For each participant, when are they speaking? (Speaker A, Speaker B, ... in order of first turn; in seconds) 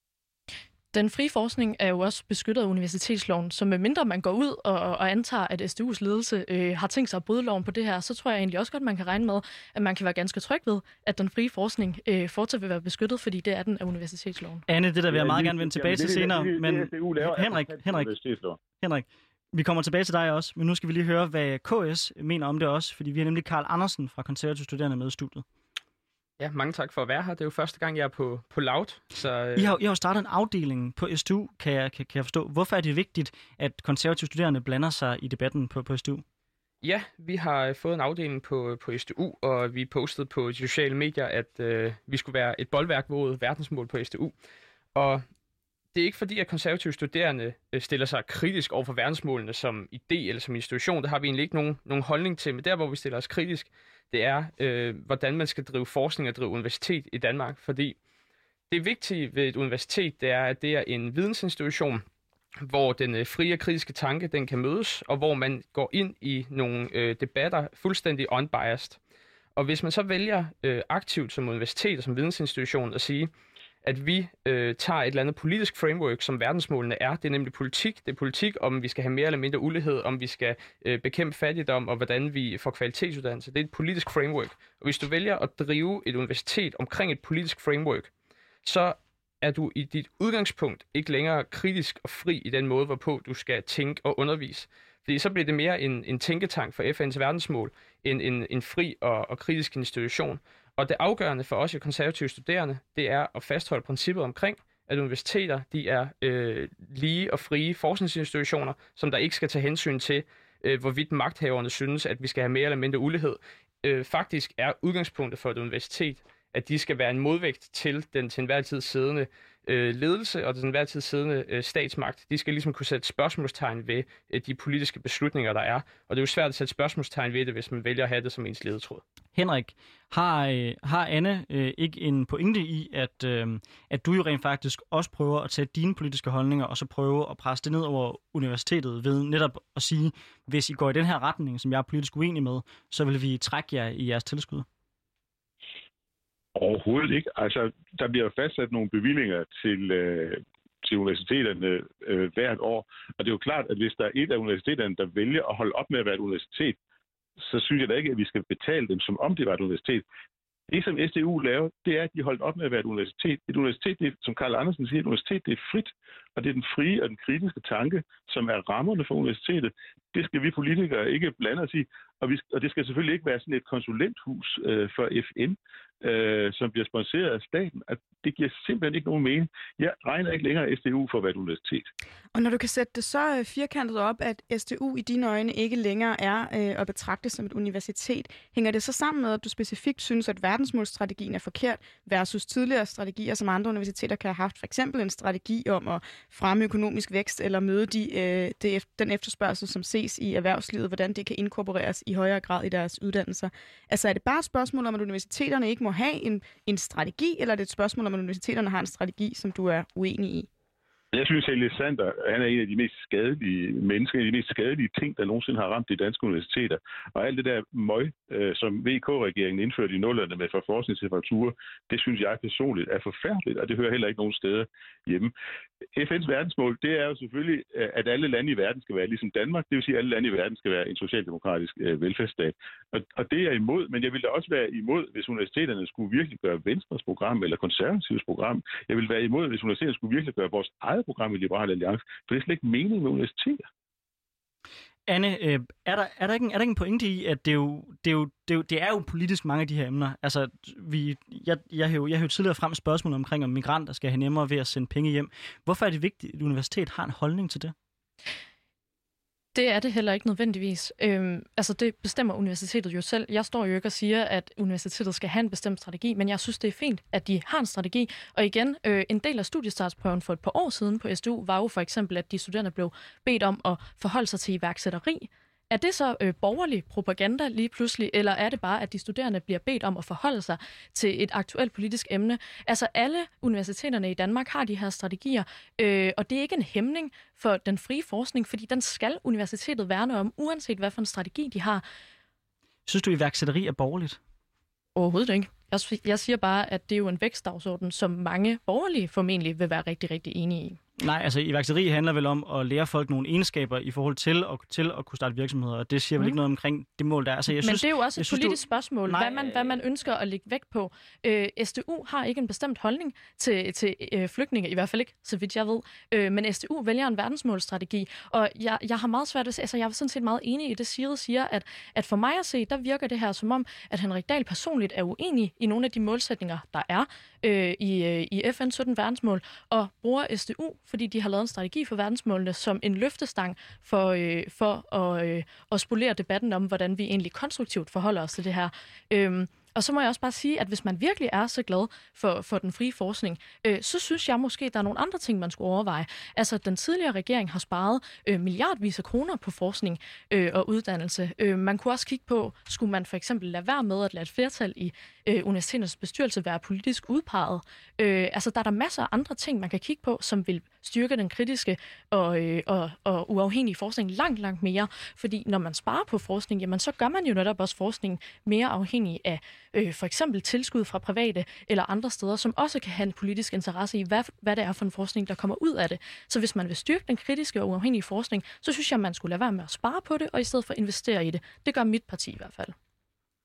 Speaker A: 0.9-14.6, 259.5-291.8, 294.9-300.8, 307.5-382.7
Speaker B: 14.7-18.1, 18.8-25.4, 29.6-36.2, 129.3-144.7, 245.1-257.7, 292.9-294.2, 301.0-309.6
Speaker C: 15.1-18.6, 146.6-156.8, 157.4-160.0, 160.7-181.9, 211.1-225.3, 225.9-243.6
Speaker D: 26.4-29.7, 36.8-44.3, 44.9-45.2, 45.9-58.0, 58.7-62.0, 62.6-69.0, 69.5-73.3, 73.8-88.1, 88.6-129.0
Speaker E: 182.3-210.5